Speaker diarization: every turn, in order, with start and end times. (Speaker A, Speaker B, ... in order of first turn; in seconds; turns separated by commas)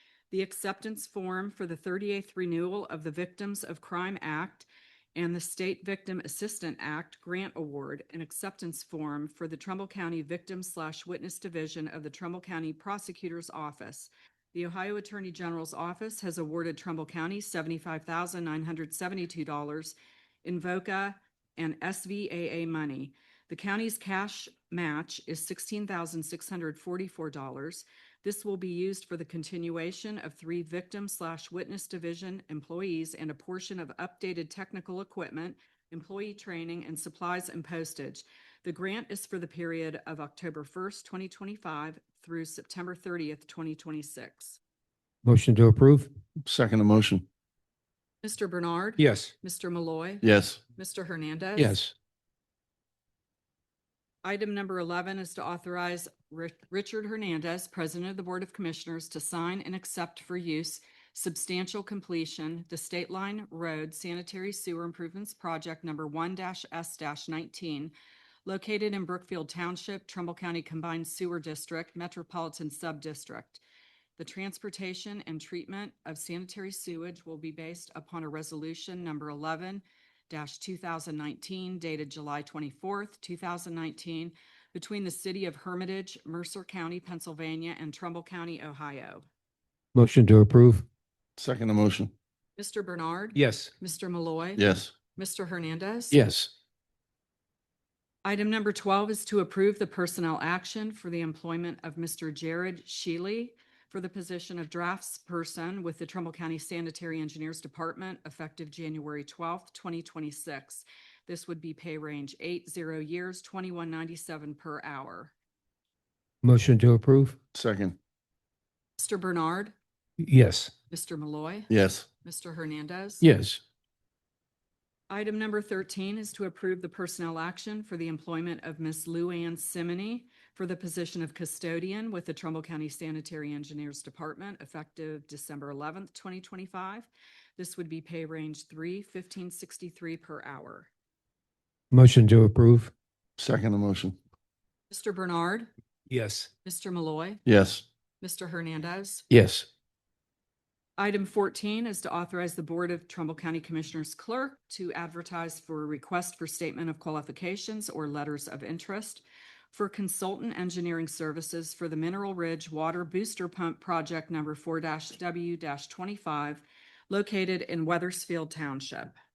Speaker A: 0.3-44.6, Speaker B: 45.2-46.1, Speaker C: 46.4-47.2, Speaker A: 48.2-51.8, Speaker B: 49.0-49.3, Speaker C: 50.2-50.6, Speaker B: 51.5-51.9, Speaker A: 54.2-67.9, Speaker A: 68.5-73.6, Speaker A: 74.2-89.2, Speaker B: 89.9-90.8, Speaker C: 91.4-92.1, Speaker A: 92.6-94.6, Speaker B: 93.3-93.7, Speaker C: 94.6-94.9, Speaker A: 95.1-96.2, Speaker B: 96.1-96.5, Speaker A: 98.2-115.3, Speaker B: 116.4-117.4, Speaker C: 117.5-118.0, Speaker A: 119.0-119.7, Speaker B: 120.2-120.7, Speaker A: 120.9-121.7, Speaker C: 121.7-122.1, Speaker A: 122.2-123.2, Speaker B: 123.2-123.6, Speaker A: 125.1-140.9, Speaker B: 141.9-142.9, Speaker C: 143.4-144.2, Speaker A: 144.9-145.7, Speaker B: 146.1-146.5, Speaker A: 146.6-147.4, Speaker C: 147.4-147.8, Speaker A: 148.2-149.2, Speaker B: 149.3-149.7, Speaker A: 151.0-169.1